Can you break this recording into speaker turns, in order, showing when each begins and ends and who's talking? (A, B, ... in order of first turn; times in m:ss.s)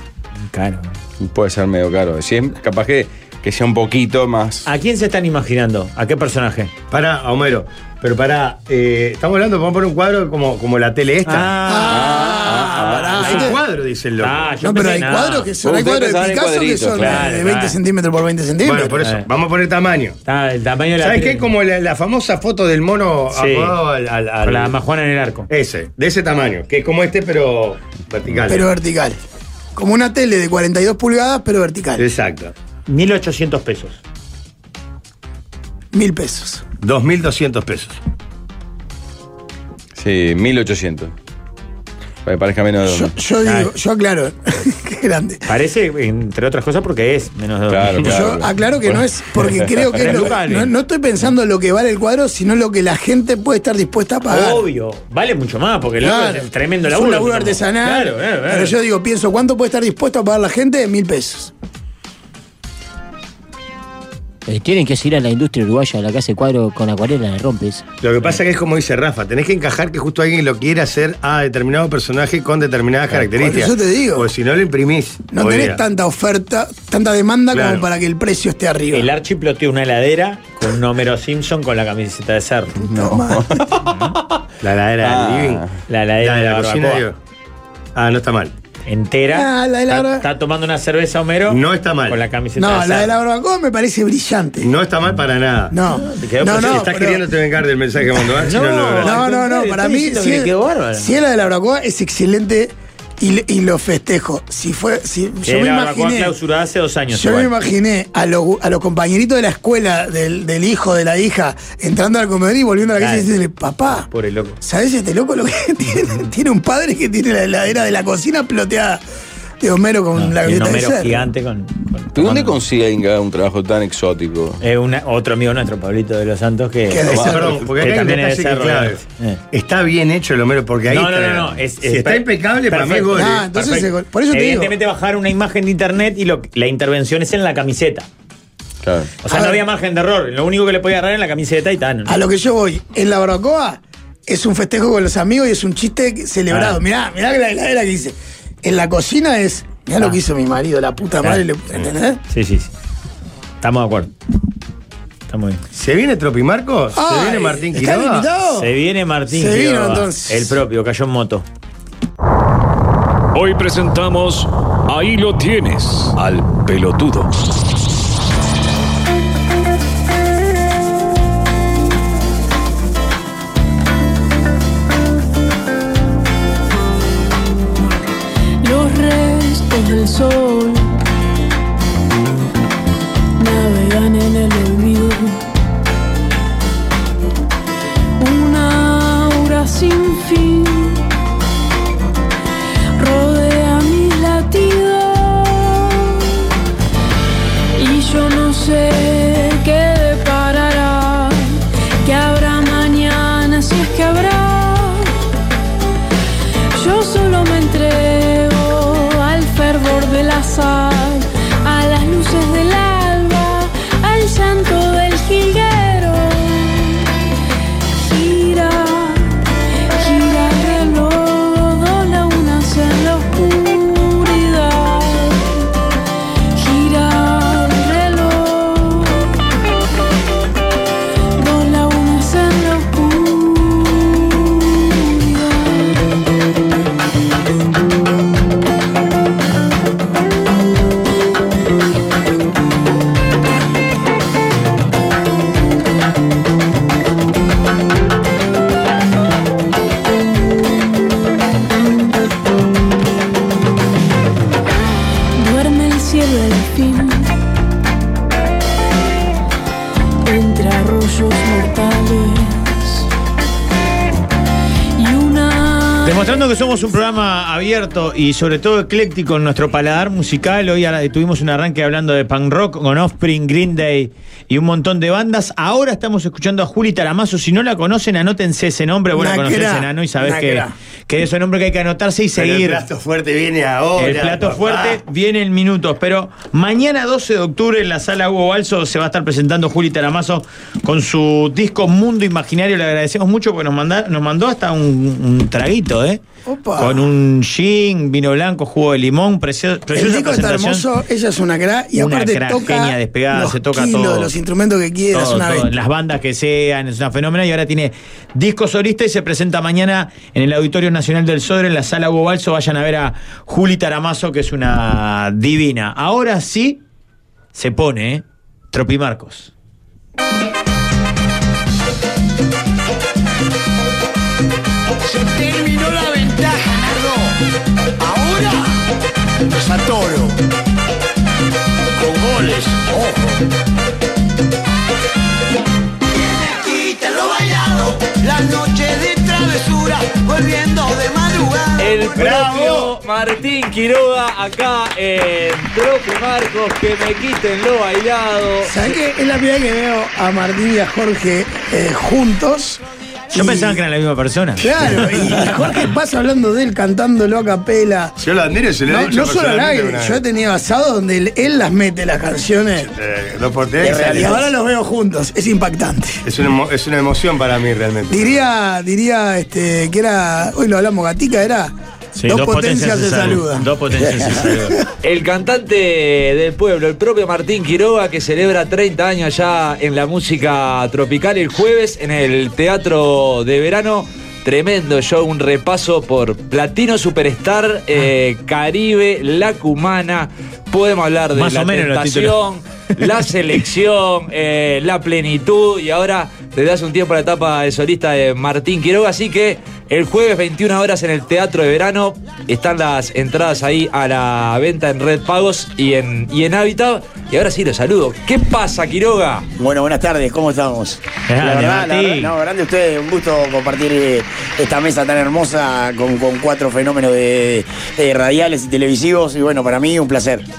0:00.4-0:01.0 A
0:01.2-0:04.7 B
0:04.6-0:06.7 A
0:06.9-0:11.6 C
0:11.2-0:13.6 A
0:11.7-0:13.6 D
0:11.9-0:13.2 B
0:13.2-0:14.5 C
0:14.2-0:15.5 A
0:14.6-0:19.0 D
0:15.6-0:17.3 B
0:17.0-0:17.8 A
0:18.6-0:20.2 C
0:20.2-0:21.5 A
0:21.0-0:24.8 C
0:23.3-0:23.8 A
0:24.4-0:25.5 A
0:25.5-0:28.7 C
0:28.5-0:29.2 D
0:29.8-0:32.1 D
0:32.0-0:32.5 C
0:32.9-0:34.0 A
0:35.9-0:36.6 D
0:36.8-0:38.0 C
0:40.0-0:41.1 B
0:42.2-0:43.1 B
0:42.9-0:45.4 D
0:43.4-0:43.7 A
0:45.5-0:48.1 A
0:47.7-0:49.0 B
0:48.0-0:54.6 D
0:49.9-0:50.7 A
0:54.3-0:58.8 A
0:56.0-1:01.5 D
1:04.5-1:07.8 E
1:08.0-1:15.8 C
1:13.2-1:14.3 D
1:15.3-1:19.1 D
1:17.5-1:17.8 C
1:18.9-1:23.2 A
1:22.8-1:23.6 D
1:23.3-1:23.6 B
1:23.8-1:24.2 A
1:24.6-1:25.7 C
1:25.0-1:25.7 B
1:25.9-1:27.0 A
1:26.2-1:27.2 C
1:28.0-1:28.5 C
1:28.9-1:33.1 A
1:29.3-1:30.3 D
1:31.5-1:32.2 C
1:32.6-1:34.7 D
1:34.6-1:35.8 C
1:35.7-1:37.2 D
1:36.0-1:36.9 A
1:36.4-1:39.2 C
1:38.4-1:41.1 A
1:39.0-1:46.4 D
1:45.5-1:47.5 A
1:47.1-1:54.1 D
1:53.0-1:53.3 A
1:54.1-1:54.6 A
1:54.6-1:59.0 D
1:59.6-2:01.3 D
2:00.2-2:02.6 A
2:02.1-2:04.6 B
2:04.6-2:09.4 A
2:06.9-2:07.6 D
2:07.2-2:13.8 C
2:10.9-2:18.1 A
2:13.1-2:14.8 D
2:18.8-2:19.1 B
2:19.2-2:22.2 A
2:19.3-2:19.6 D
2:22.1-2:32.2 D
2:26.5-2:26.8 A
2:32.3-2:32.7 A
2:33.6-2:34.1 A
2:35.3-2:35.6 A
2:35.7-2:38.3 C
2:36.9-2:38.7 D
2:38.6-2:41.4 A
2:39.3-2:40.6 D
2:43.3-2:47.3 F
2:58.6-3:00.9 G
3:03.4-3:05.4 G
3:08.2-3:11.0 G
3:13.0-3:16.1 G
3:17.8-3:25.2 G
3:26.7-3:37.0 G
3:38.0-3:39.4 G
3:39.9-3:45.7 G
3:46.5-3:49.4 G
3:51.4-3:55.9 G
4:15.4-4:17.3 G
4:20.2-4:23.1 G
4:25.0-4:26.4 G
4:26.0-4:42.8 A
4:39.1-4:40.7 D
4:42.4-4:45.0 C
4:44.0-4:56.2 A
4:56.5-4:57.1 D
4:56.8-5:00.9 A
4:59.9-5:05.7 D
5:02.0-5:04.3 A
5:05.1-5:16.8 A
5:17.5-5:19.5 A
5:25.0-5:27.4 H
5:28.0-5:28.8 H
5:29.5-5:30.4 H
5:32.0-5:33.4 H
5:36.3-5:42.4 H
5:41.8-5:48.9 I
5:48.7-5:53.8 D
5:53.3-5:55.5 A
5:54.6-5:58.2 D
5:58.2-6:00.2 C
5:58.9-6:02.9 D
6:02.9-6:04.4 C
6:03.8-6:04.4 J
6:03.9-6:06.2 D
6:06.2-6:08.4 C
6:08.1-6:11.7 D
6:12.2-6:14.8 A
6:12.3-6:14.6 D
6:15.0-6:49.5 I
6:31.4-6:32.4 A
6:49.6-7:00.5 J
6:51.3-6:52.4 A